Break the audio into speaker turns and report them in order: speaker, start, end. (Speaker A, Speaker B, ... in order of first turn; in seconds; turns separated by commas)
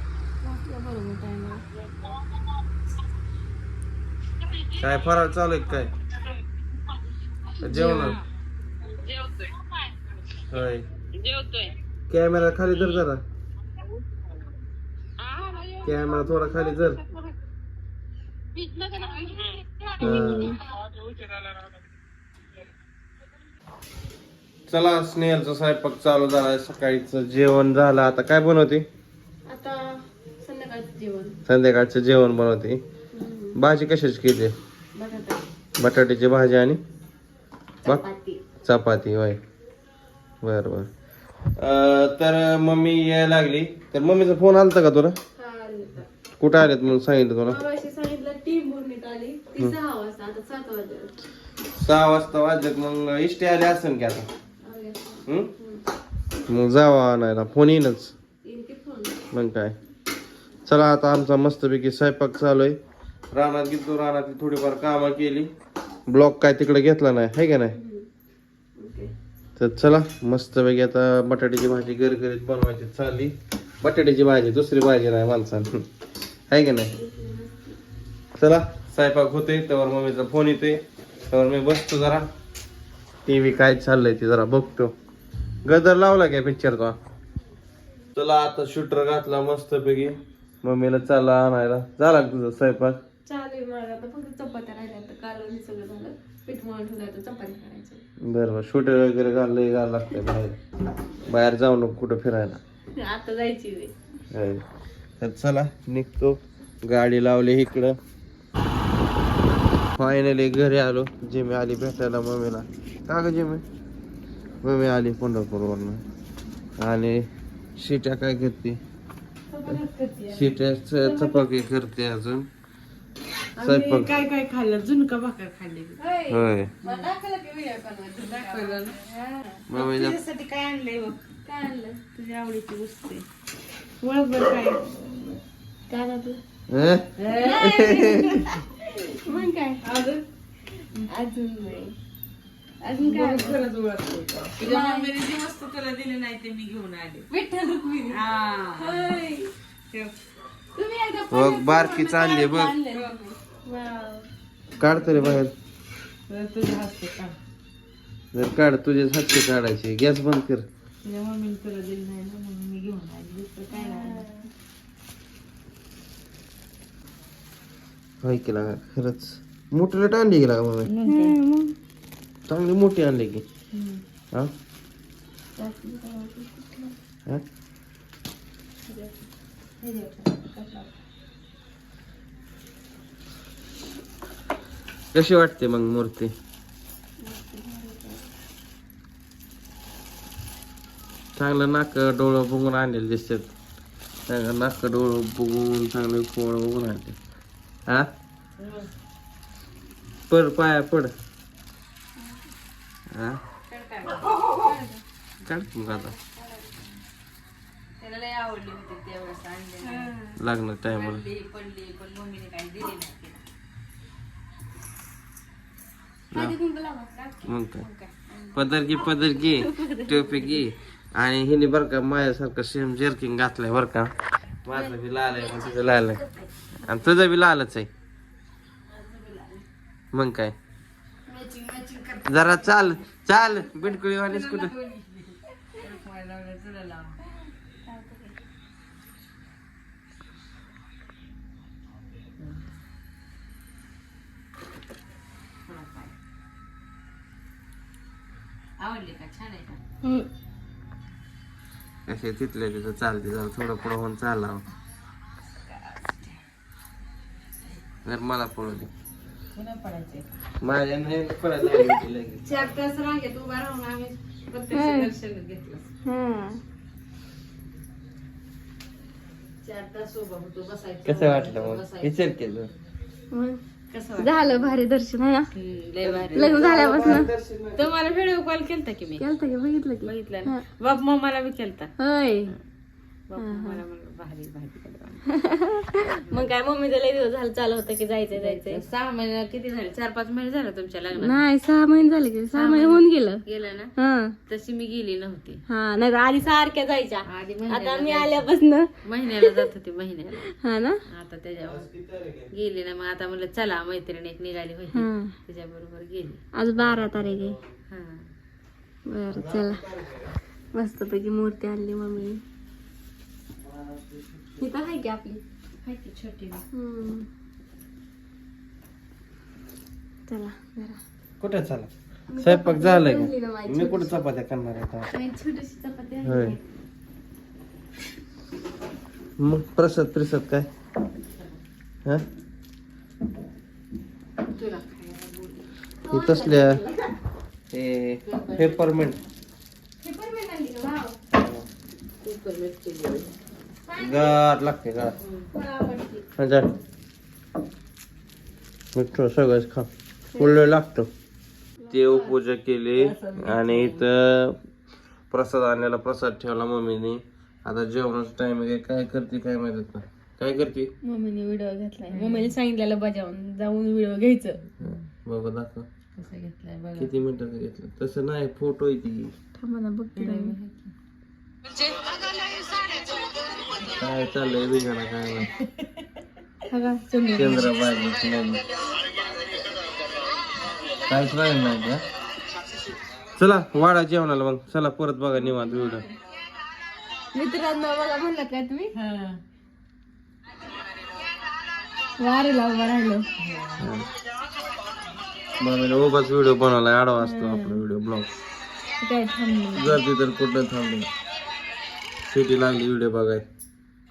Speaker A: 0.4-1.6, Speaker B: 4.7-5.9, Speaker A: 7.6-8.2, Speaker B: 7.6-8.2, Speaker B: 10.5-10.9, Speaker B: 12.1-13.2, Speaker C: 15.3-15.8, Speaker B: 15.8-17.0, Speaker C: 18.7-19.6, Speaker A: 20.0-20.6, Speaker B: 20.0-20.5, Speaker B: 24.7-28.8, Speaker A: 29.4-29.9, Speaker A: 30.4-31.4, Speaker B: 31.4-32.8, Speaker A: 33.1-33.5, Speaker B: 33.5-34.5, Speaker A: 35.0-35.4, Speaker B: 35.8-36.8, Speaker A: 37.9-38.4, Speaker B: 38.6-39.4, Speaker B: 40.4-40.9, Speaker B: 41.6-45.2, Speaker A: 45.4-46.0, Speaker B: 46.4-47.6, Speaker A: 47.5-51.1, Speaker B: 51.8-54.3, Speaker A: 54.6-55.8, Speaker B: 56.5-58.1, Speaker A: 58.4-59.1, Speaker B: 59.3-59.8, Speaker B: 60.6-62.8, Speaker B: 63.3-65.5, Speaker B: 66.1-67.8, Speaker A: 67.7-68.1, Speaker A: 68.8-69.1, Speaker B: 69.6-75.8, Speaker B: 76.5-76.9, Speaker A: 76.9-77.8, Speaker B: 78.4-82.3, Speaker B: 83.2-84.9, Speaker B: 85.6-87.0, Speaker B: 88.1-93.0, Speaker A: 93.2-98.0, Speaker B: 98.2-100.6, Speaker B: 101.3-102.6, Speaker A: 102.9-103.9, Speaker B: 104.3-104.6, Speaker B: 105.2-108.0, Speaker B: 110.0-113.6, Speaker B: 114.6-116.0, Speaker B: 116.8-117.2, Speaker B: 117.8-118.8, Speaker C: 119.5-120.5, Speaker B: 120.3-122.5, Speaker A: 121.0-121.4, Speaker C: 123.6-126.0, Speaker B: 123.6-124.2, Speaker A: 126.0-129.6, Speaker B: 126.3-126.7, Speaker C: 126.8-127.1, Speaker C: 128.1-129.0, Speaker B: 129.7-130.2, Speaker C: 129.7-131.2, Speaker A: 131.4-132.0, Speaker C: 132.1-133.2, Speaker C: 134.0-135.1, Speaker A: 135.9-136.4, Speaker B: 136.7-138.3, Speaker C: 137.2-138.6, Speaker A: 137.4-138.3, Speaker A: 138.9-139.8, Speaker C: 139.3-140.2, Speaker A: 141.0-141.9, Speaker C: 142.8-147.3, Speaker A: 142.9-143.6, Speaker A: 144.6-145.1, Speaker A: 147.3-148.2, Speaker C: 148.0-149.2, Speaker A: 148.8-149.5, Speaker A: 150.7-154.3, Speaker B: 151.3-152.8, Speaker C: 152.6-153.2, Speaker B: 154.8-155.5, Speaker C: 154.9-155.4, Speaker C: 156.3-157.3, Speaker B: 158.3-160.7, Speaker C: 161.0-164.3, Speaker A: 163.7-164.5, Speaker B: 168.2-170.9, Speaker C: 170.8-171.4, Speaker A: 171.1-171.7, Speaker B: 172.5-173.4, Speaker C: 173.7-174.0, Speaker A: 175.6-176.9, Speaker A: 178.9-179.2, Speaker C: 179.8-180.9, Speaker B: 185.1-186.3, Speaker A: 187.2-188.3, Speaker B: 191.3-193.5, Speaker B: 194.3-197.2, Speaker C: 198.6-198.9, Speaker B: 200.3-201.1, Speaker A: 202.2-202.4, Speaker B: 203.1-203.4, Speaker C: 203.7-204.7, Speaker A: 204.5-205.0, Speaker B: 205.4-206.1, Speaker C: 205.9-207.0, Speaker C: 208.0-210.2, Speaker A: 209.8-210.4, Speaker B: 210.4-211.2, Speaker C: 210.8-213.4, Speaker A: 216.3-218.9, Speaker B: 217.4-217.8, Speaker B: 218.5-224.1, Speaker A: 219.5-220.6, Speaker B: 224.6-226.2, Speaker A: 224.7-226.4, Speaker B: 226.8-227.9, Speaker C: 228.9-229.6, Speaker B: 230.1-230.6, Speaker C: 231.3-232.9, Speaker B: 232.2-234.7, Speaker C: 234.1-237.2, Speaker A: 237.8-238.3, Speaker C: 242.4-242.6, Speaker C: 245.7-246.1, Speaker C: 248.8-249.8, Speaker A: 250.0-250.3, Speaker B: 252.1-254.6, Speaker C: 255.6-256.4, Speaker B: 258.0-258.9, Speaker C: 259.5-260.3, Speaker B: 260.6-262.5, Speaker C: 262.4-265.9, Speaker A: 264.7-265.1, Speaker A: 266.0-266.6, Speaker C: 269.6-272.4, Speaker B: 271.1-272.7, Speaker A: 273.3-273.6, Speaker C: 273.9-274.8, Speaker A: 274.2-275.5, Speaker C: 275.5-277.2, Speaker B: 276.0-278.1, Speaker A: 276.3-277.3, Speaker C: 277.7-279.2, Speaker A: 279.2-280.6, Speaker C: 280.0-281.9, Speaker A: 282.0-282.5, Speaker C: 283.3-285.3, Speaker A: 283.4-283.8, Speaker A: 285.3-288.8, Speaker C: 286.0-286.5, Speaker C: 288.3-291.4, Speaker A: 291.1-293.4, Speaker C: 292.5-293.9, Speaker A: 294.0-294.3, Speaker C: 294.5-295.6, Speaker A: 295.7-299.6, Speaker C: 297.2-298.5, Speaker C: 299.0-300.5, Speaker A: 300.5-301.0, Speaker C: 301.1-301.9, Speaker B: 301.7-302.5, Speaker C: 302.5-306.4, Speaker A: 304.9-305.3, Speaker A: 306.5-307.6, Speaker B: 306.7-307.7, Speaker C: 307.9-308.3, Speaker A: 309.1-309.8, Speaker B: 309.3-310.3, Speaker A: 310.7-312.4, Speaker B: 313.6-315.0, Speaker A: 314.6-315.4, Speaker C: 315.8-316.6, Speaker A: 316.7-317.3, Speaker A: 320.3-321.0, Speaker B: 321.4-325.1, Speaker A: 322.3-324.2, Speaker A: 325.1-326.6, Speaker B: 326.2-326.6, Speaker B: 329.4-330.7, Speaker C: 331.3-331.6, Speaker C: 334.5-335.7, Speaker A: 336.1-337.0, Speaker B: 336.1-336.8, Speaker B: 337.7-339.2, Speaker C: 338.2-339.2, Speaker A: 340.0-341.2, Speaker B: 341.4-341.6, Speaker C: 342.2-343.3, Speaker A: 343.9-344.4, Speaker B: 344.0-345.1, Speaker C: 345.2-345.5, Speaker A: 345.5-346.2, Speaker B: 346.4-346.7, Speaker B: 348.9-351.1, Speaker A: 350.3-350.7, Speaker A: 351.8-352.3, Speaker B: 351.9-354.6, Speaker C: 352.9-354.0, Speaker B: 355.3-360.9, Speaker A: 361.0-364.6, Speaker C: 362.1-362.6, Speaker B: 364.8-365.9, Speaker C: 366.1-367.1, Speaker B: 367.0-369.3, Speaker A: 369.6-370.6, Speaker C: 370.1-370.9, Speaker B: 374.0-375.5, Speaker A: 376.7-377.7, Speaker B: 377.3-378.6, Speaker B: 381.1-382.0, Speaker B: 383.4-386.0, Speaker A: 385.3-386.1, Speaker A: 387.3-388.9, Speaker C: 388.9-389.4, Speaker A: 392.2-393.3, Speaker C: 393.4-393.8, Speaker B: 393.8-394.1, Speaker B: 395.6-398.3, Speaker A: 397.2-397.8, Speaker A: 399.0-400.0, Speaker B: 399.7-401.1, Speaker B: 402.2-403.4